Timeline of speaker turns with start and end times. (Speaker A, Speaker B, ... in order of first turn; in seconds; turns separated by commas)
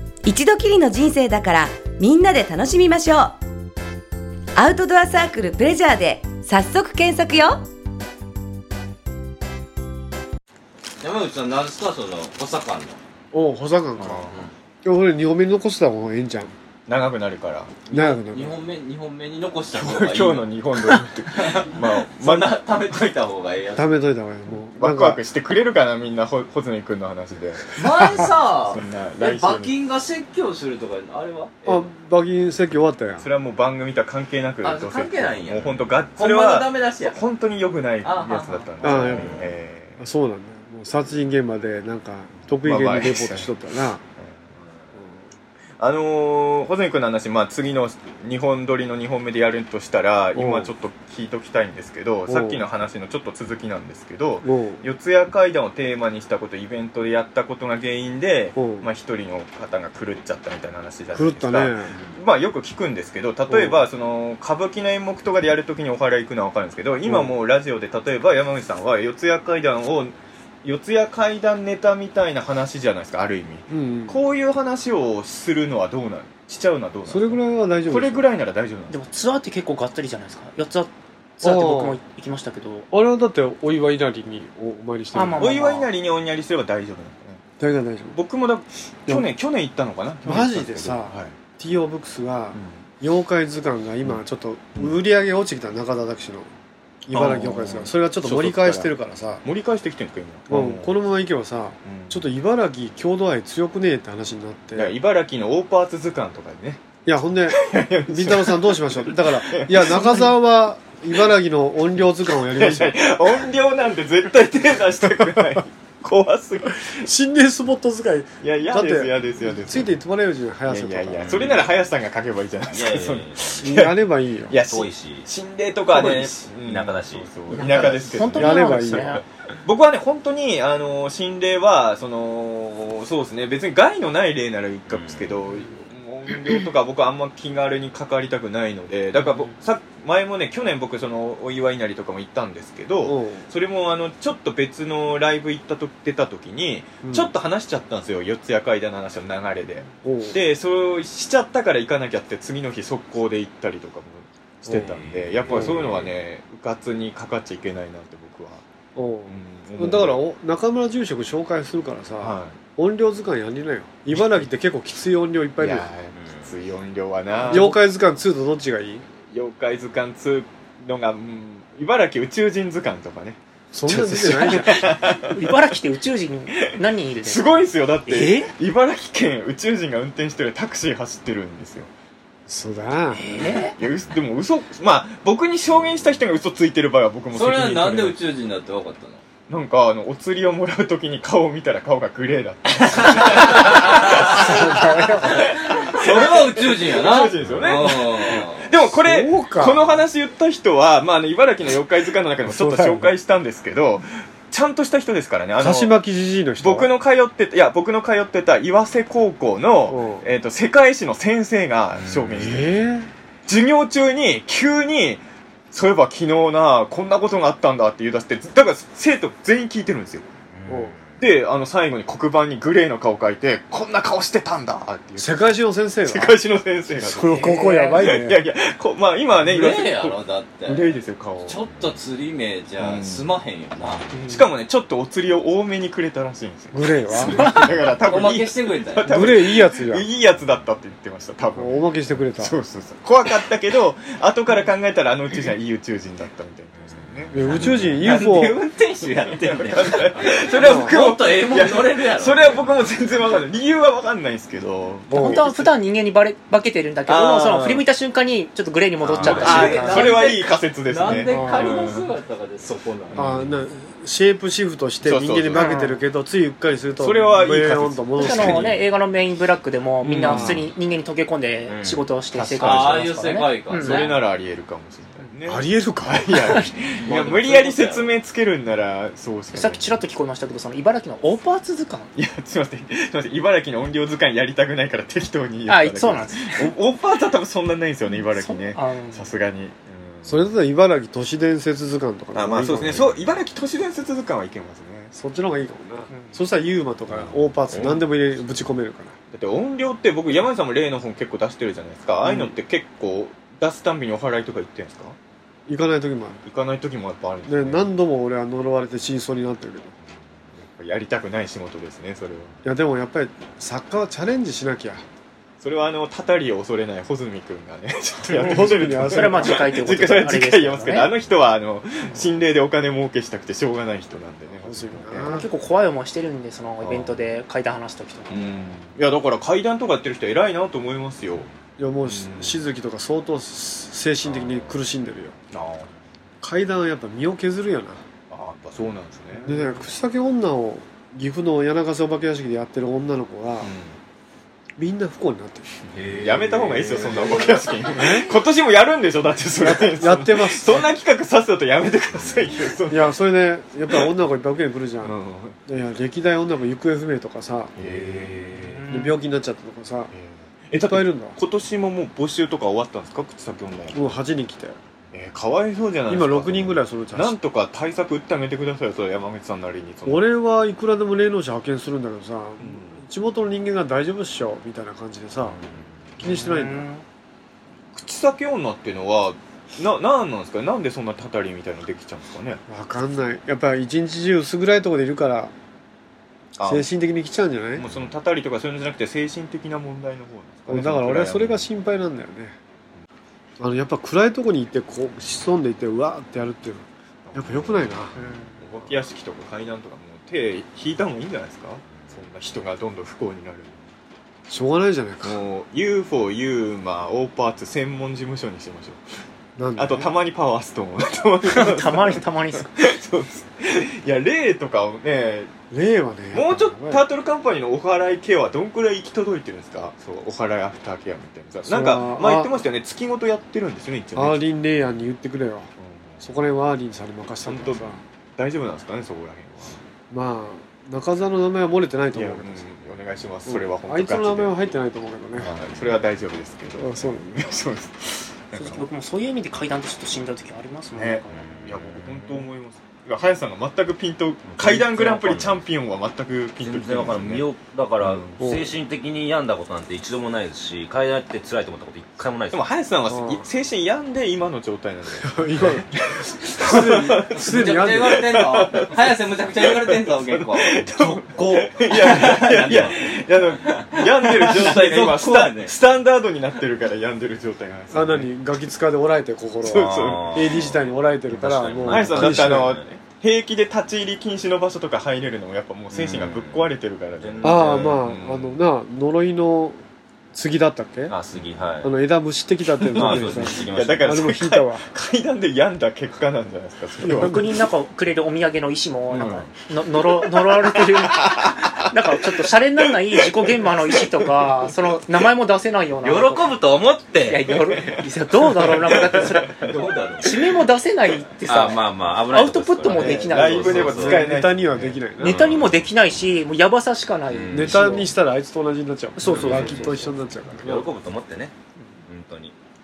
Speaker A: 0.2-3.4, Speaker A: 4.6-7.6, Speaker B: 11.0-13.0, Speaker C: 13.3-14.3, Speaker D: 14.0-14.4, Speaker C: 14.8-16.5, Speaker D: 16.9-17.8, Speaker B: 17.9-23.9, Speaker C: 17.9-18.6, Speaker D: 19.7-22.6, Speaker C: 23.8-25.2, Speaker D: 24.8-29.7, Speaker B: 27.7-31.9, Speaker C: 31.6-33.3, Speaker D: 33.2-40.0, Speaker B: 34.6-37.2, Speaker B: 38.0-39.5, Speaker C: 38.8-39.4, Speaker C: 40.0-44.0, Speaker D: 42.6-43.5, Speaker D: 45.8-79.0, Speaker C: 50.3-50.7, Speaker C: 52.3-52.6, Speaker C: 54.4-54.8, Speaker C: 58.6-58.9, Speaker C: 61.1-61.9, Speaker C: 63.5-63.8, Speaker C: 67.0-67.3, Speaker C: 73.7-74.2, Speaker C: 77.1-78.3, Speaker E: 78.9-82.9, Speaker C: 81.4-82.0, Speaker C: 82.9-85.6, Speaker E: 85.1-85.9, Speaker D: 85.4-87.4, Speaker C: 87.6-88.2, Speaker D: 88.1-91.4, Speaker C: 90.2-96.5, Speaker C: 97.0-99.4, Speaker D: 97.1-98.9, Speaker D: 99.4-101.0, Speaker C: 100.5-105.0, Speaker D: 101.8-102.2, Speaker D: 104.8-106.8, Speaker C: 107.0-113.1, Speaker D: 107.5-110.3, Speaker D: 112.3-117.1, Speaker C: 115.2-115.6, Speaker C: 117.0-121.6, Speaker D: 118.4-120.0, Speaker D: 120.7-124.0, Speaker F: 121.2-121.7, Speaker F: 122.7-123.7, Speaker C: 123.6-124.5, Speaker D: 124.5-158.6, Speaker F: 124.6-125.3, Speaker F: 125.9-127.9, Speaker E: 127.5-129.2, Speaker C: 128.3-129.2, Speaker F: 134.9-135.4, Speaker C: 143.0-143.5, Speaker C: 147.0-147.3, Speaker C: 150.0-150.4, Speaker C: 154.7-155.0, Speaker F: 154.7-156.1, Speaker C: 155.5-156.0, Speaker C: 159.0-165.9, Speaker D: 159.3-160.2, Speaker D: 162.2-162.6, Speaker D: 164.1-164.5, Speaker D: 165.6-167.8, Speaker F: 166.1-166.5, Speaker C: 167.4-169.1, Speaker D: 169.3-175.6, Speaker C: 173.7-175.0, Speaker E: 175.1-178.5, Speaker D: 176.6-181.9, Speaker C: 182.5-183.5, Speaker E: 183.1-183.7, Speaker D: 183.8-188.2, Speaker B: 187.3-189.2, Speaker D: 189.5-205.9, Speaker C: 194.1-195.6, Speaker B: 195.7-198.7, Speaker C: 198.8-200.1, Speaker C: 202.4-203.1, Speaker C: 205.6-206.9, Speaker D: 206.6-212.8, Speaker C: 209.9-210.3, Speaker F: 212.0-212.5, Speaker C: 212.3-213.1, Speaker D: 213.5-220.3, Speaker F: 220.5-221.2, Speaker C: 220.7-221.0, Speaker D: 221.2-225.4, Speaker C: 225.2-226.4, Speaker D: 226.1-231.6, Speaker C: 226.9-228.4, Speaker E: 227.4-228.0, Speaker B: 229.4-234.1, Speaker D: 232.8-233.3, Speaker E: 234.1-234.4, Speaker D: 234.3-248.3, Speaker C: 236.7-237.4, Speaker B: 238.0-239.1, Speaker C: 239.1-240.1, Speaker C: 241.6-242.5, Speaker F: 246.8-247.7, Speaker C: 247.3-248.6, Speaker B: 248.0-252.6, Speaker D: 249.4-255.7, Speaker C: 250.6-251.0, Speaker C: 255.1-255.5, Speaker E: 255.1-260.1, Speaker D: 257.1-257.9, Speaker F: 259.1-259.6, Speaker D: 259.1-262.1, Speaker B: 259.2-263.2, Speaker C: 261.1-261.8, Speaker D: 263.1-263.5, Speaker C: 263.2-268.8, Speaker D: 265.0-265.8, Speaker E: 265.6-266.0, Speaker D: 267.0-268.8, Speaker E: 268.2-274.1, Speaker D: 270.1-270.7, Speaker C: 270.1-270.6, Speaker F: 271.7-272.1, Speaker D: 272.3-273.1, Speaker B: 272.6-274.2, Speaker D: 273.7-280.0, Speaker C: 275.4-276.6, Speaker B: 277.0-278.1, Speaker E: 279.5-282.1, Speaker D: 282.2-290.5, Speaker E: 285.7-286.7, Speaker E: 288.1-289.3, Speaker C: 290.2-293.1, Speaker D: 292.3-295.1, Speaker C: 295.1-299.1, Speaker E: 296.1-296.4, Speaker D: 297.1-298.1, Speaker D: 299.3-305.2, Speaker C: 302.2-302.6, Speaker C: 305.7-306.4, Speaker D: 306.4-307.9, Speaker C: 307.5-309.9, Speaker D: 310.6-312.6, Speaker C: 312.6-315.1, Speaker D: 315.6-325.4, Speaker C: 318.3-319.9, Speaker E: 318.5-321.1, Speaker C: 324.6-325.5, Speaker E: 325.2-328.4, Speaker D: 326.8-327.2, Speaker D: 328.3-331.5, Speaker C: 331.8-335.4, Speaker D: 332.1-332.6, Speaker D: 335.5-335.9, Speaker C: 336.4-338.0, Speaker D: 338.3-339.8, Speaker C: 339.4-343.7, Speaker D: 343.6-344.0, Speaker C: 344.8-345.7, Speaker F: 345.9-347.8, Speaker D: 346.1-353.1, Speaker C: 347.9-348.3, Speaker C: 349.6-350.9, Speaker C: 352.9-355.1, Speaker D: 355.0-355.6, Speaker C: 355.7-357.7, Speaker D: 357.8-358.6, Speaker F: 357.8-358.8, Speaker E: 358.6-359.2, Speaker C: 358.9-360.1, Speaker D: 360.1-364.2, Speaker C: 360.9-361.4, Speaker C: 363.9-364.8, Speaker D: 365.1-370.2, Speaker C: 366.1-367.4, Speaker C: 370.1-375.6, Speaker D: 372.6-373.0, Speaker F: 375.5-376.0, Speaker C: 376.2-376.9, Speaker E: 376.2-377.0, Speaker D: 377.9-382.6, Speaker C: 382.7-385.5, Speaker D: 386.6-386.9, Speaker C: 386.6-387.9, Speaker D: 387.8-391.6, Speaker C: 390.7-392.6, Speaker C: 393.6-398.2, Speaker D: 397.3-403.9, Speaker E: 398.2-398.5, Speaker C: 404.5-405.4, Speaker D: 405.2-409.0, Speaker C: 409.6-410.1, Speaker D: 409.8-415.5, Speaker E: 411.4-412.7, Speaker C: 415.7-417.0, Speaker D: 416.3-424.4, Speaker C: 421.6-422.6, Speaker C: 424.1-425.7, Speaker D: 425.8-426.2, Speaker C: 426.2-428.0, Speaker D: 427.4-429.8, Speaker C: 430.1-432.6, Speaker D: 432.1-434.6, Speaker C: 433.5-435.5, Speaker D: 435.4-438.9, Speaker F: 435.4-435.9, Speaker C: 436.8-437.4, Speaker E: 438.5-441.4, Speaker D: 440.9-448.4, Speaker F: 441.3-442.5, Speaker F: 444.5-445.6, Speaker F: 446.6-452.7, Speaker C: 448.4-448.7, Speaker D: 452.5-468.3, Speaker C: 453.1-453.5, Speaker C: 455.2-458.2, Speaker B: 457.4-460.8, Speaker C: 461.0-461.6, Speaker B: 461.9-463.0, Speaker F: 462.6-462.9, Speaker B: 463.7-465.7, Speaker C: 467.9-472.8, Speaker D: 469.6-470.7, Speaker F: 469.8-472.9, Speaker D: 471.9-478.6, Speaker F: 475.9-478.0, Speaker C: 477.4-479.8, Speaker C: 480.3-481.1, Speaker F: 481.1-481.9, Speaker C: 481.8-484.9, Speaker F: 482.9-484.3, Speaker D: 482.9-487.6, Speaker C: 487.0-487.4, Speaker E: 487.1-496.5, Speaker D: 489.1-491.9, Speaker B: 496.0-497.5, Speaker E: 497.3-504.2, Speaker D: 497.7-499.7, Speaker B: 499.0-500.3, Speaker F: 501.4-505.8, Speaker D: 502.8-504.9, Speaker C: 503.8-505.4, Speaker E: 505.2-508.1, Speaker F: 507.3-508.1, Speaker C: 507.5-510.9, Speaker E: 509.2-509.9, Speaker D: 509.3-509.9, Speaker F: 509.3-511.5, Speaker F: 512.1-512.5